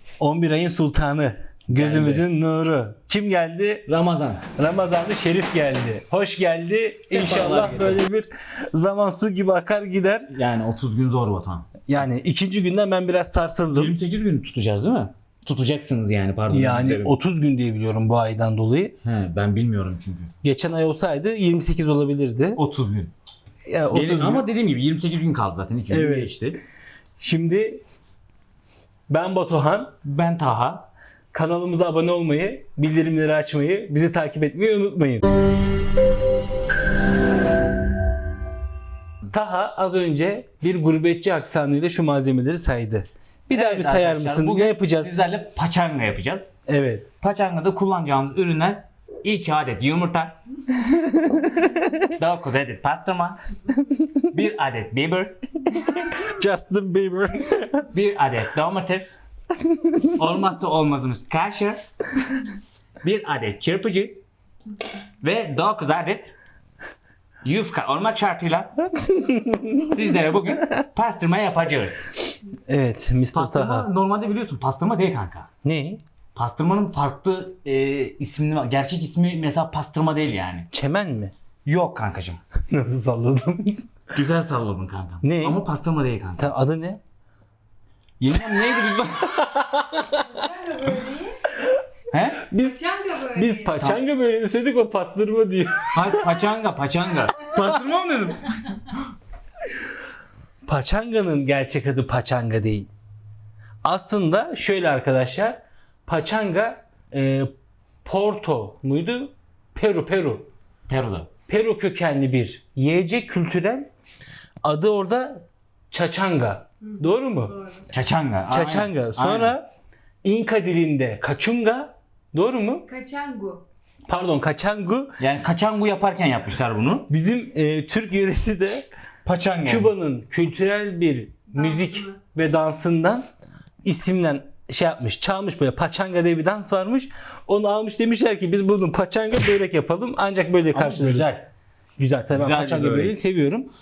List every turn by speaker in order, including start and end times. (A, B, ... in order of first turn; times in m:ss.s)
0:00.2-0:03.9 A
0:01.7-0:02.2 B
0:03.8-0:04.5 B
0:04.5-0:10.3 A
0:07.1-0:08.0 B
0:10.3-0:11.8 B
0:11.9-0:13.9 A
0:13.7-0:17.1 B
0:16.5-0:19.0 A
0:19.0-0:20.3 B
0:20.4-0:22.6 A
0:22.6-0:23.1 B
0:23.6-0:24.4 A
0:23.9-0:26.6 B
0:25.9-0:26.3 A
0:27.2-0:27.8 A
0:29.1-0:29.9 A
0:30.0-0:30.9 B
0:31.3-0:35.2 A
0:39.3-0:45.2 A
0:43.5-0:46.5 B
0:46.7-0:47.0 A
0:47.2-0:50.4 B
0:51.2-0:51.8 A
0:52.2-0:53.4 B
0:54.3-0:55.9 B
0:56.3-0:57.8 A
0:57.9-0:59.2 B
1:00.2-1:01.8 B
1:03.0-1:04.2 B
1:05.2-1:06.3 B
1:07.4-1:08.8 B
1:09.1-1:09.9 A
1:09.8-1:12.1 B
1:12.7-1:13.9 A
1:13.3-1:15.5 B
1:15.6-1:16.0 A
1:16.3-1:20.7 B
1:20.7-1:21.3 A
1:21.6-1:22.4 B
1:22.7-1:23.9 A
1:24.1-1:26.5 B
1:25.2-1:25.6 A
1:26.4-1:27.0 A
1:28.2-1:29.5 B
1:29.3-1:30.2 A
1:30.2-1:31.4 C
1:32.1-1:32.4 B
1:32.5-1:32.8 A
1:32.6-1:33.8 C
1:33.3-1:36.3 A
1:35.9-1:38.8 B
1:40.6-1:42.9 A
1:43.8-1:47.5 A
1:48.0-1:50.5 A
1:50.9-1:51.3 B
1:51.5-1:53.9 A
1:54.6-1:57.5 A
1:56.8-1:57.9 C
1:57.9-1:59.6 B
1:58.5-1:59.6 A
2:00.2-2:02.8 A
2:02.9-2:03.6 C
2:04.1-2:05.2 A
2:05.2-2:07.1 B
2:07.1-2:08.8 A
2:09.2-2:09.9 B
2:09.6-2:13.3 A
2:11.5-2:12.2 C
2:13.8-2:21.3 A
2:20.7-2:21.5 B
2:22.0-2:23.7 A
2:22.3-2:23.1 B